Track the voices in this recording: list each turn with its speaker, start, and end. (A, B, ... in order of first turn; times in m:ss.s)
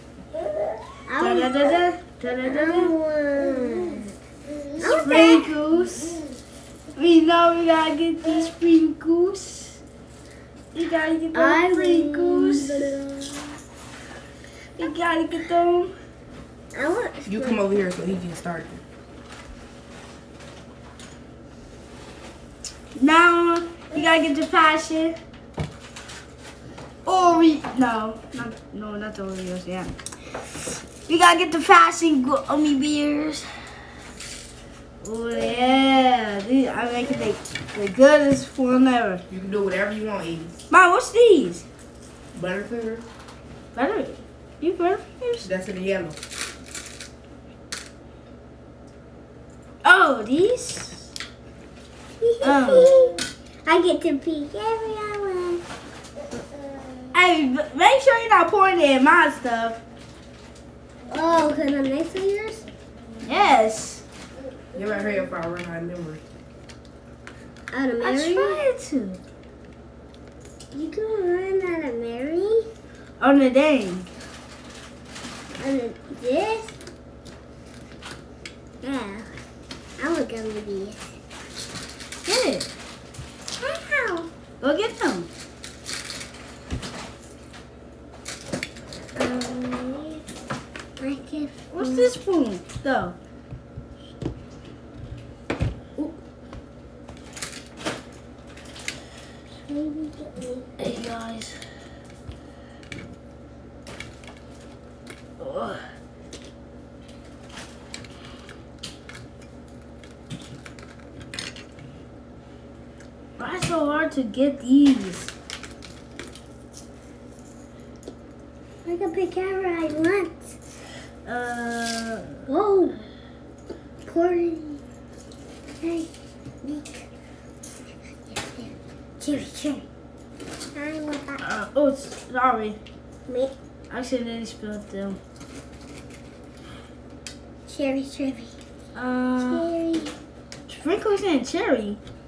0:00.4-0:01.7 A
0:01.2-0:02.9 B
0:02.4-0:04.1 A
0:04.7-0:06.2 A
0:04.8-0:06.2 B
0:07.0-0:09.8 B
0:10.7-0:12.9 B
0:11.3-0:13.5 A
0:14.7-0:15.9 B
0:16.7-0:17.6 A
0:17.2-0:18.8 C
0:22.9-0:25.2 B
0:27.0-0:33.8 B
0:35.0-0:39.2 B
0:39.3-0:40.6 C
0:40.7-0:41.6 B
0:42.3-0:43.0 C
0:43.7-0:45.5 B
0:45.4-0:46.2 C
0:49.8-0:51.1 B
0:52.2-0:55.6 A
0:52.4-0:52.9 B
0:56.3-0:57.2 A
0:57.1-0:59.8 B
1:01.1-1:02.7 A
1:03.2-1:04.0 B
1:04.7-1:06.2 C
1:04.8-1:05.2 A
1:07.7-1:08.6 A
1:08.0-1:09.2 B
1:10.7-1:12.7 A
1:13.2-1:14.1 B
1:15.6-1:16.7 A
1:18.8-1:19.2 A
1:20.0-1:21.1 A
1:22.2-1:22.7 B
1:23.6-1:24.3 A
1:24.6-1:25.3 B
1:29.1-1:30.2 A
1:31.0-1:32.1 A
1:31.7-1:33.2 B
1:39.7-1:40.7 A
1:40.8-1:41.6 B
1:45.4-1:45.8 B
1:53.4-1:55.3 B
1:58.8-2:00.6 A
2:01.2-2:02.4 B
2:02.5-2:03.0 A
2:04.0-2:04.8 A
2:05.8-2:06.1 A
2:06.6-2:07.1 A
2:08.3-2:09.8 A
2:10.7-2:11.4 A
2:11.4-2:12.8 B
2:13.3-2:13.5 A
2:13.9-2:15.2 B
2:17.7-2:18.5 A
2:18.9-2:19.7 B
2:19.4-2:20.1 A
2:20.7-2:22.0 B